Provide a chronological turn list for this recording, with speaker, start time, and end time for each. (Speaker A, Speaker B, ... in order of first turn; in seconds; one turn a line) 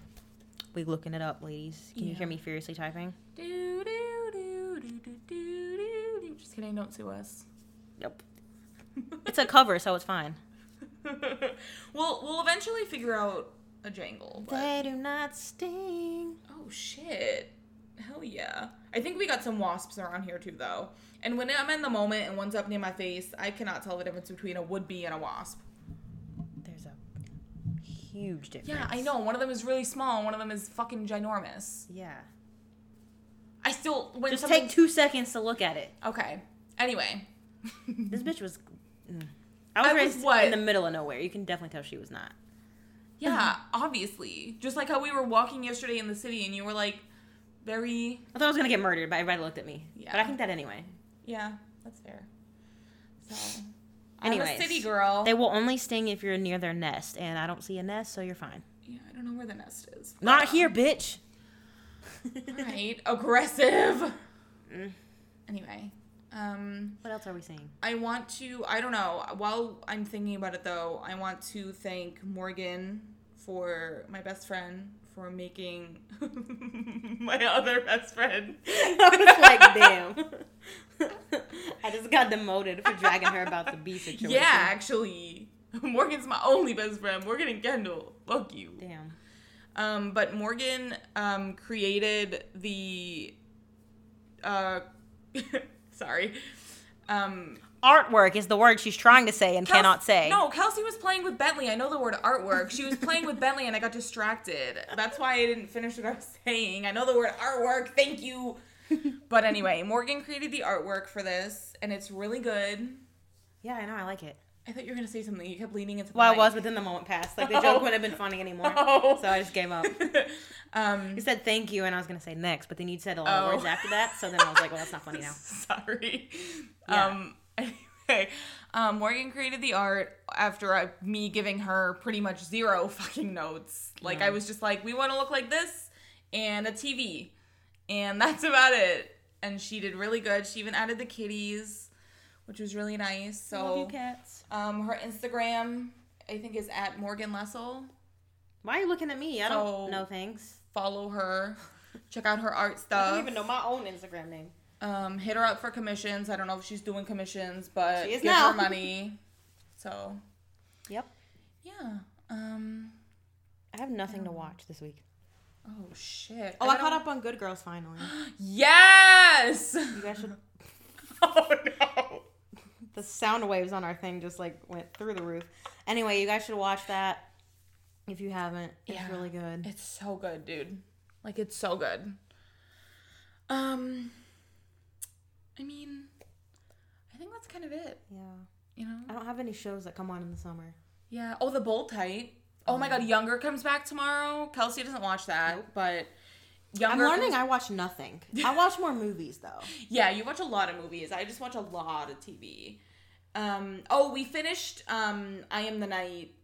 Speaker A: 0.7-3.2
Speaker B: 1.9-2.4
Speaker B: 3.4-7.5
Speaker B: 9.0-9.4
Speaker A: 9.2-10.4
Speaker B: 11.0-14.8
Speaker A: 14.4-16.4
Speaker B: 16.5-25.6
Speaker A: 26.6-27.0
Speaker A: 27.8-29.1
Speaker B: 28.6-31.9
Speaker A: 31.9-32.3
Speaker B: 33.6-34.8
Speaker A: 34.3-35.9
Speaker B: 36.0-38.2
Speaker A: 38.1-42.3
Speaker B: 39.8-40.6
Speaker B: 43.2-47.0
Speaker B: 47.6-48.3
Speaker A: 48.3-50.9
Speaker B: 50.0-50.4
Speaker B: 51.2-52.3
Speaker B: 53.2-55.4
Speaker A: 54.2-58.6
Speaker B: 58.8-60.7
Speaker A: 60.2-61.2
Speaker A: 62.2-62.7
Speaker B: 62.5-64.2
Speaker A: 64.7-65.0
Speaker B: 65.5-67.0
Speaker A: 67.0-67.7
Speaker B: 67.8-80.0
Speaker A: 78.7-80.5
Speaker A: 81.0-84.7
Speaker B: 82.9-83.5
Speaker B: 84.1-88.8
Speaker A: 88.8-89.2
Speaker B: 89.7-93.3
Speaker B: 94.4-96.5
Speaker B: 97.1-97.6
Speaker A: 97.8-100.4
Speaker B: 99.6-108.6
Speaker B: 109.3-113.0
Speaker A: 113.6-114.4
Speaker B: 114.6-116.6
Speaker A: 116.1-120.2
Speaker B: 117.4-121.2
Speaker A: 121.1-125.4
Speaker B: 123.2-137.3
Speaker A: 126.9-127.2
Speaker A: 134.0-134.4
Speaker B: 137.9-141.9
Speaker B: 142.5-143.9
Speaker A: 143.5-144.4
Speaker B: 144.5-147.9
Speaker A: 148.6-150.6
Speaker B: 149.5-150.1
Speaker B: 150.7-151.6
Speaker B: 152.1-153.3
Speaker A: 152.9-154.5
Speaker B: 154.8-159.2
Speaker A: 158.0-158.8
Speaker B: 159.7-160.2
Speaker B: 161.6-163.0
Speaker A: 163.7-165.0
Speaker B: 164.1-164.5
Speaker B: 165.7-167.0
Speaker A: 166.6-168.1
Speaker B: 168.0-170.2
Speaker A: 169.9-170.4
Speaker B: 171.0-172.2
Speaker A: 172.9-177.2
Speaker A: 178.1-179.7
Speaker B: 178.9-182.2
Speaker B: 183.5-184.2
Speaker B: 185.6-186.1
Speaker B: 187.1-188.0
Speaker A: 188.1-188.5
Speaker B: 188.8-189.1
Speaker A: 189.1-190.8
Speaker B: 191.1-196.1
Speaker A: 192.6-193.1
Speaker B: 196.7-197.4
Speaker A: 196.8-199.7
Speaker B: 198.3-198.7
Speaker B: 199.7-202.8
Speaker B: 203.3-206.3